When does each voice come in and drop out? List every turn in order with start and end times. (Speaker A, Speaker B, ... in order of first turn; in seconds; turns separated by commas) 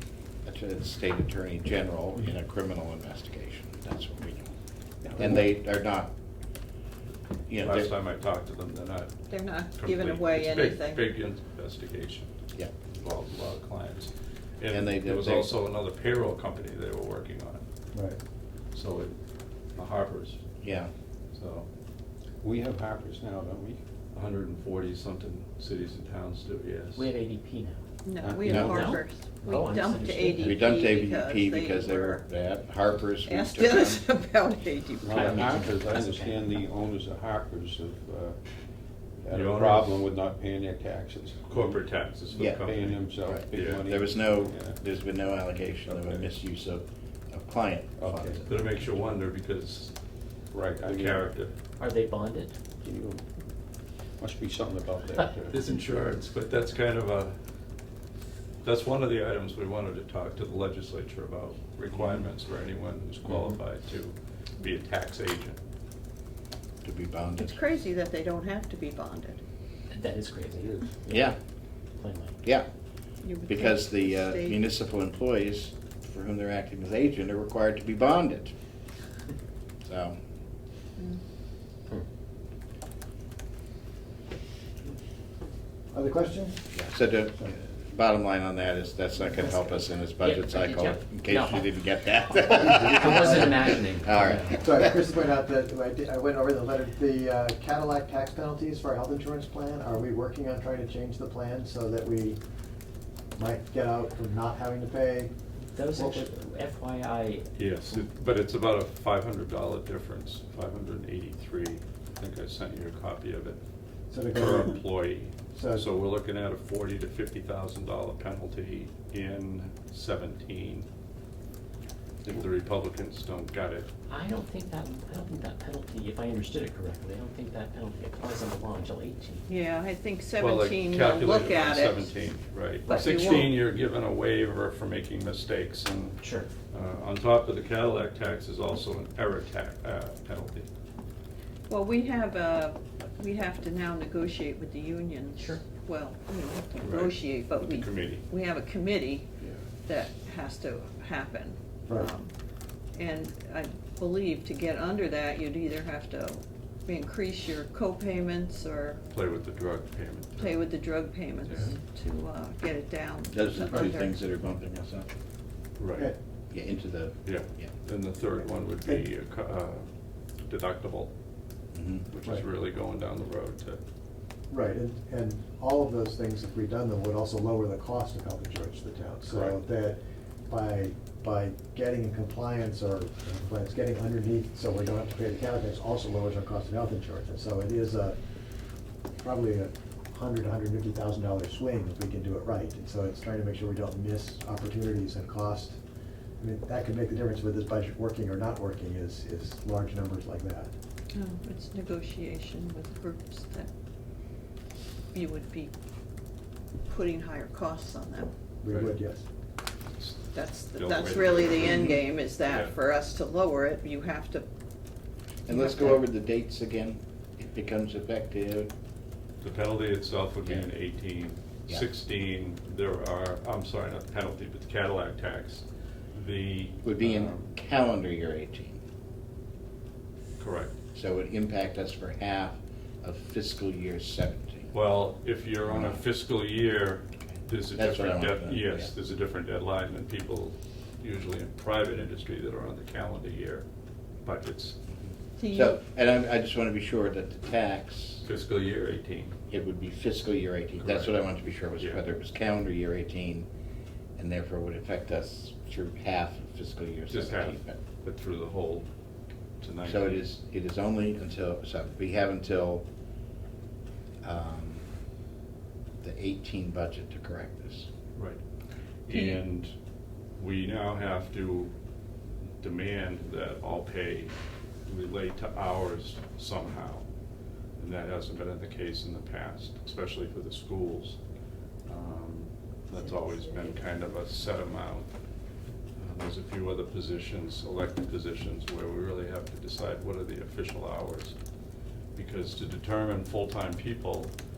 Speaker A: 0.4-4.5, Speaker A: 5.1-6.1, Speaker A: 7.5-7.9, Speaker B: 7.6-12.3, Speaker C: 9.3-11.0, Speaker B: 12.9-17.6, Speaker A: 14.7-15.5, Speaker D: 17.9-18.2, Speaker B: 18.7-19.1, Speaker B: 19.7-20.4, Speaker A: 20.6-20.9, Speaker B: 21.3-21.6, Speaker E: 22.4-23.8, Speaker B: 24.1-27.1, Speaker F: 26.9-27.8, Speaker C: 28.0-32.2, Speaker E: 28.2-28.8, Speaker A: 28.4-28.8, Speaker F: 28.6-30.8, Speaker A: 30.4-34.0, Speaker C: 33.2-35.5, Speaker E: 35.0-38.4, Speaker F: 35.1-36.6, Speaker E: 39.2-41.9, Speaker B: 39.3-40.0, Speaker B: 41.5-43.8, Speaker A: 42.3-42.6, Speaker E: 42.5-44.8, Speaker A: 43.2-48.4, Speaker E: 45.9-46.3, Speaker E: 48.0-48.6, Speaker B: 48.5-49.9, Speaker E: 50.5-51.3, Speaker B: 50.8-51.5, Speaker F: 51.8-52.6, Speaker E: 52.8-53.2, Speaker E: 54.2-55.5, Speaker B: 55.5-57.4, Speaker B: 58.6-65.6, Speaker A: 61.9-62.2, Speaker F: 63.3-63.6, Speaker A: 66.8-67.6, Speaker C: 67.4-69.4, Speaker F: 69.9-71.3, Speaker A: 71.1-71.4, Speaker F: 72.0-72.4, Speaker C: 73.2-74.6, Speaker A: 73.4-78.5, Speaker A: 79.8-80.2, Speaker D: 85.9-86.7, Speaker A: 86.7-95.0, Speaker F: 89.4-91.7, Speaker F: 92.3-94.5, Speaker D: 92.6-93.6, Speaker D: 94.4-102.4, Speaker D: 103.4-105.3, Speaker F: 105.7-108.0, Speaker D: 105.9-106.3, Speaker B: 107.6-113.6, Speaker D: 114.1-114.9, Speaker B: 114.3-120.9, Speaker D: 115.5-115.8, Speaker B: 122.2-123.9, Speaker F: 124.1-129.4, Speaker C: 129.5-132.1, Speaker B: 130.3-140.7, Speaker C: 132.8-133.6, Speaker F: 136.2-136.5, Speaker C: 141.7-149.3, Speaker F: 145.3-145.6, Speaker B: 146.8-148.2, Speaker C: 149.8-152.3, Speaker C: 152.9-159.0, Speaker B: 159.1-160.7, Speaker C: 160.4-164.2, Speaker B: 161.4-161.7, Speaker A: 163.3-165.1, Speaker B: 165.8-166.1, Speaker A: 166.5-167.7, Speaker B: 167.2-169.9, Speaker B: 170.4-171.1, Speaker A: 171.7-172.1, Speaker B: 172.1-173.8, Speaker D: 174.5-188.2, Speaker B: 179.2-179.6, Speaker D: 189.2-195.8, Speaker D: 196.4-200.7, Speaker C: 201.1-203.7, Speaker C: 205.1-205.7, Speaker C: 206.9-208.3, Speaker D: 208.6-209.2, Speaker B: 208.7-208.9, Speaker B: 210.0-212.7, Speaker C: 210.3-214.4, Speaker A: 215.5-218.7, Speaker C: 215.5-216.0, Speaker B: 219.4-227.5, Speaker A: 226.8-228.8, Speaker B: 230.4-230.7, Speaker A: 230.9-234.7, Speaker B: 234.7-243.6, Speaker A: 235.7-236.0, Speaker A: 237.7-238.9, Speaker B: 244.2-244.8, Speaker C: 245.4-245.8, Speaker A: 245.5-248.2, Speaker B: 248.2-249.4, Speaker A: 249.5-253.5, Speaker B: 250.8-251.2, Speaker B: 251.8-252.0, Speaker A: 254.2-257.8, Speaker B: 257.1-258.9, Speaker B: 259.6-260.3, Speaker A: 259.8-262.9, Speaker A: 264.2-264.9, Speaker A: 266.0-267.9, Speaker B: 268.1-268.4, Speaker B: 269.1-269.7, Speaker C: 269.1-269.4, Speaker B: 270.4-271.7, Speaker B: 272.6-274.3, Speaker B: 274.9-277.0, Speaker B: 277.8-281.2, Speaker B: 281.9-285.1, Speaker B: 286.0-291.4, Speaker B: 292.1-294.3